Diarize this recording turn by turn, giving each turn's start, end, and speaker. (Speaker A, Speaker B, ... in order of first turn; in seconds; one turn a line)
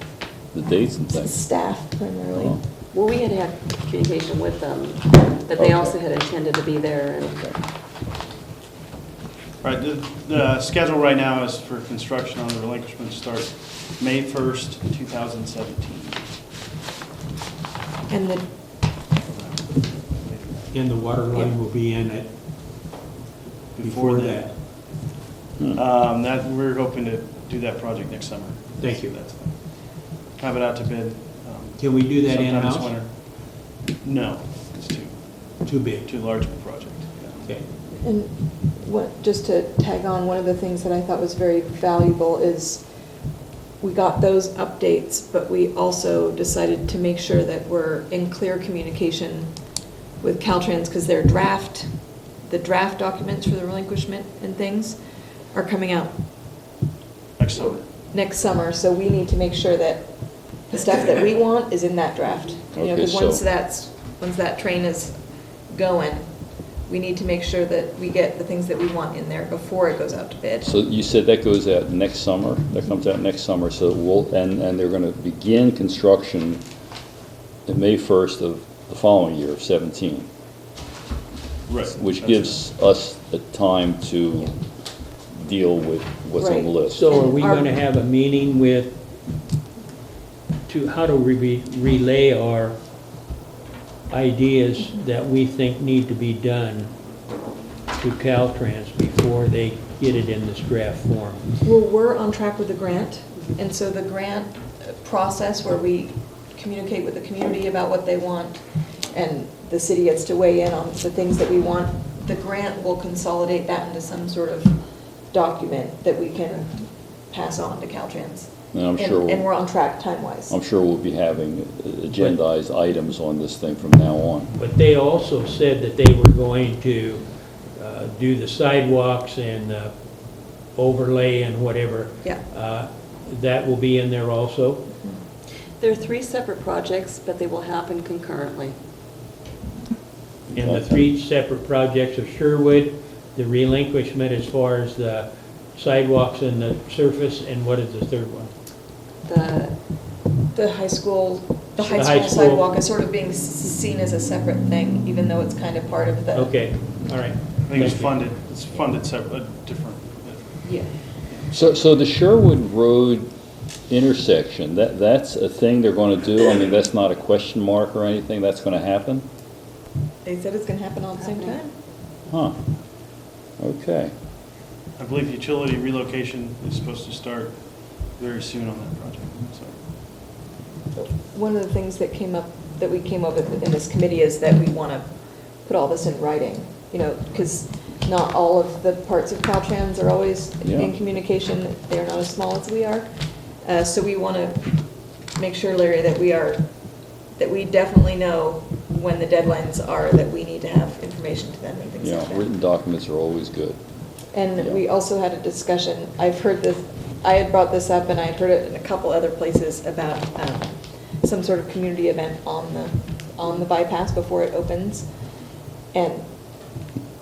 Speaker A: 0.5-1.4
Speaker B: 1.1-2.6
Speaker A: 2.4-2.6
Speaker C: 2.9-7.4
Speaker A: 5.6-6.0
Speaker A: 7.2-7.6
Speaker D: 9.6-16.3
Speaker B: 18.1-18.5
Speaker D: 19.2-20.8
Speaker E: 20.7-22.3
Speaker D: 23.8-24.6
Speaker E: 23.8-24.5
Speaker D: 25.7-37.5
Speaker E: 28.8-29.1
Speaker E: 31.8-32.9
Speaker E: 35.6-36.1
Speaker B: 38.0-42.9
Speaker B: 43.8-49.5
Speaker B: 50.2-51.9
Speaker B: 52.4-55.0
Speaker B: 55.5-56.1
Speaker D: 57.4-57.9
Speaker B: 58.1-65.2
Speaker A: 62.8-63.4
Speaker B: 65.7-66.3
Speaker B: 66.9-70.7
Speaker A: 70.6-76.6
Speaker A: 77.7-80.3
Speaker D: 81.7-82.6
Speaker A: 81.9-84.5
Speaker A: 85.3-87.1
Speaker B: 86.4-87.8
Speaker E: 86.9-89.0
Speaker E: 90.7-92.8
Speaker E: 94.1-96.9
Speaker E: 98.0-101.5
Speaker B: 101.6-108.6
Speaker B: 109.1-114.8
Speaker B: 115.3-120.5
Speaker A: 118.7-119.5
Speaker A: 120.5-124.5
Speaker E: 124.5-129.9
Speaker E: 130.7-134.9
Speaker C: 135.8-138.8
Speaker E: 140.5-148.5
Speaker A: 140.6-141.1
Speaker C: 149.3-149.8
Speaker B: 150.5-156.6
Speaker E: 151.8-152.7
Speaker E: 156.3-158.2
Speaker D: 157.6-161.6
Speaker A: 161.5-163.3
Speaker A: 163.9-169.2
Speaker B: 170.2-171.7
Speaker A: 172.3-172.6
Speaker A: 173.6-174.1
Speaker D: 175.0-179.8
Speaker B: 181.0-185.1
Speaker B: 185.6-193.1
Speaker A: 190.6-190.9
Speaker B: 193.6-194.7
Speaker B: 195.3-196.7
Speaker B: 197.4-202.5
Speaker A: 202.0-203.8
Speaker B: 204.3-215.1
Speaker B: 215.9-216.2